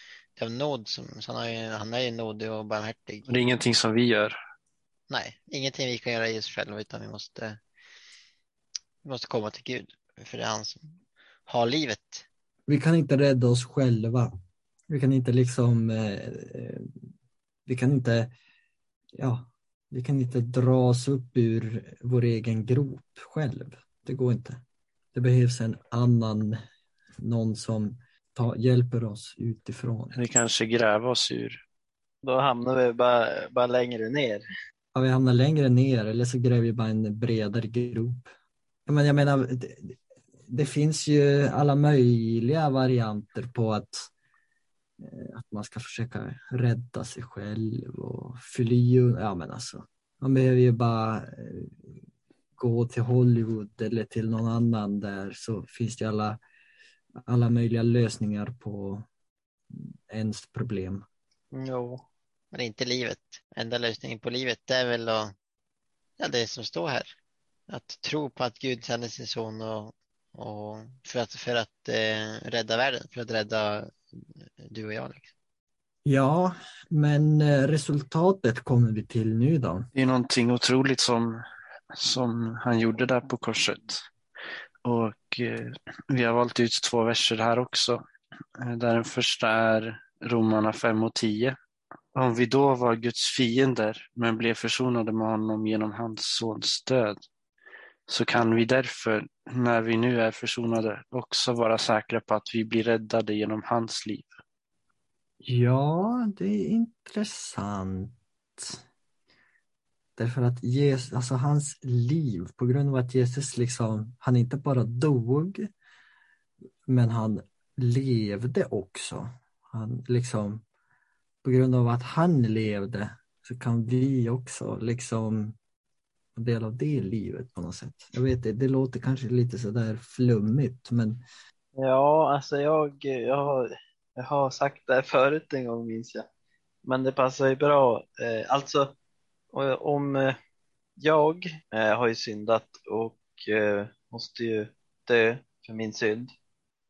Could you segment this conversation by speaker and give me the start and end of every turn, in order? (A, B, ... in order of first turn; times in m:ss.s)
0:00.4-0:03.3 A
0:03.2-0:04.4 B
0:05.1-0:07.6 A
0:09.0-0:11.0 A
0:11.5-0:12.2 A
0:12.7-0:14.3 C
0:14.9-0:16.9 C
0:17.6-0:18.3 C
0:19.2-0:24.6 C
0:25.1-0:26.6 C
0:27.2-0:30.2 C
0:30.1-0:31.6 B
0:32.2-0:34.4 D
0:34.9-0:38.3 C
0:38.9-0:40.0 C
0:40.5-0:44.1 C
0:45.0-0:51.8 C
0:52.6-0:56.4 C
0:57.3-0:59.0 C
0:59.7-1:01.0 C
1:01.5-1:02.0 D
1:02.5-1:05.3 A
1:06.2-1:07.1 A
1:07.7-1:15.3 A
1:16.0-1:19.9 C
1:19.9-1:21.4 B
1:21.9-1:24.0 B
1:24.8-1:28.0 B
1:28.6-1:31.6 B
1:32.1-1:37.2 B
1:38.1-1:44.4 B
1:45.4-1:48.8 C
1:50.2-1:55.7 C
1:56.9-2:00.6 C
2:01.4-2:05.6 C
2:06.3-2:11.2 C
2:11.8-2:13.6 D
2:14.2-2:16.2 D
2:16.8-2:18.9 D
2:19.5-2:20.3 D
2:21.0-2:26.3 D